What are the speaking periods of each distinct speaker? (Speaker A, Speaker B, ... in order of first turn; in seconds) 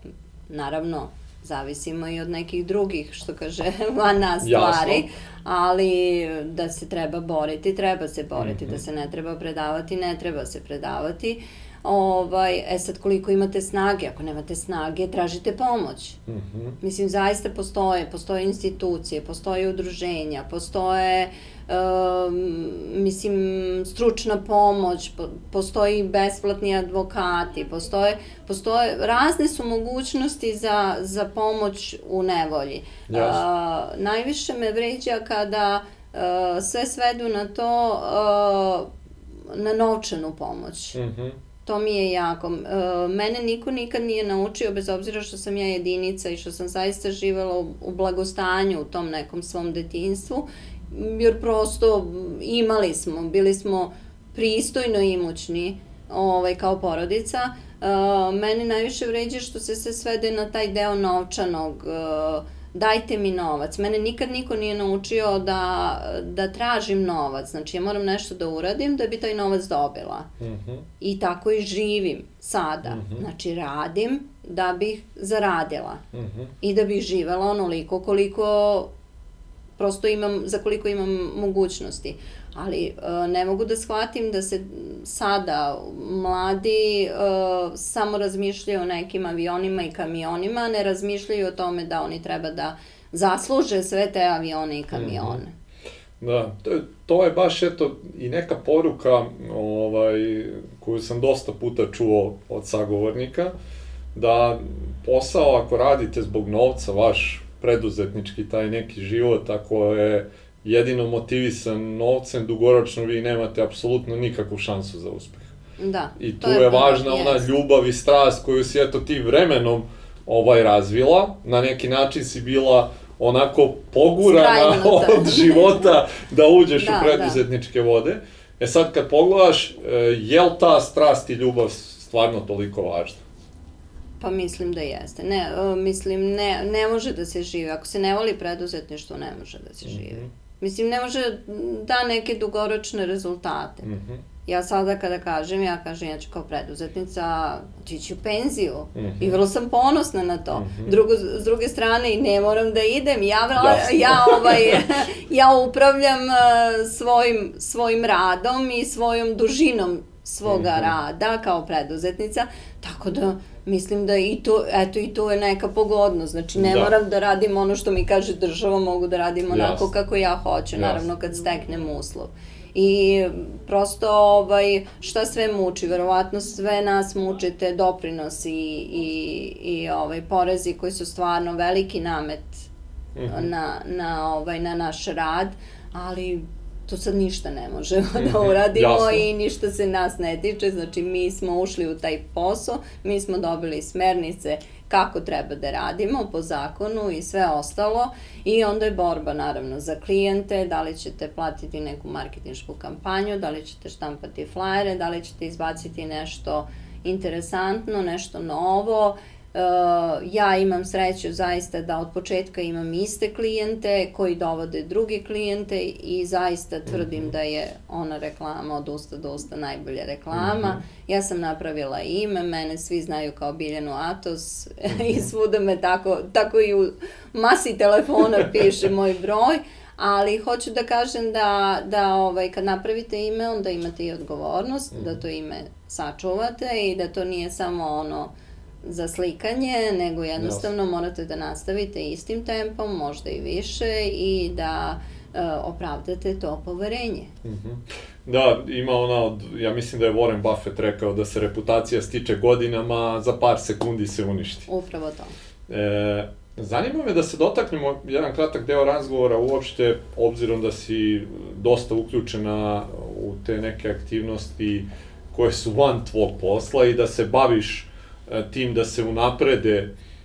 Speaker A: 0.5-16.2, 16.8-38.9, 39.5-41.0, 41.6-70.3, 71.0-76.0, 76.6-78.9, 79.8-95.5, 115.8-117.5, 124.2-125.9, 126.8-127.4, 134.2-143.9, 144.5-182.7, 183.3-238.3, 238.8-247.3, 254.7-255.3
Speaker B: 4.4-5.0, 8.4-8.8, 16.3-16.8, 33.1-33.4, 41.0-41.4, 70.4-70.9, 72.9-73.2, 76.1-76.5, 94.9-95.4, 96.2-103.5, 104.1-115.5, 116.2-133.2, 139.8-140.3, 143.8-144.2, 148.9-149.4, 150.5-150.9, 153.6-154.8, 160.4-160.9, 166.6-166.9, 169.5-169.9, 170.8-171.0, 183.2-183.5, 188.2-189.3, 220.3-220.8, 240.4-240.7, 247.4-254.7, 255.7-269.9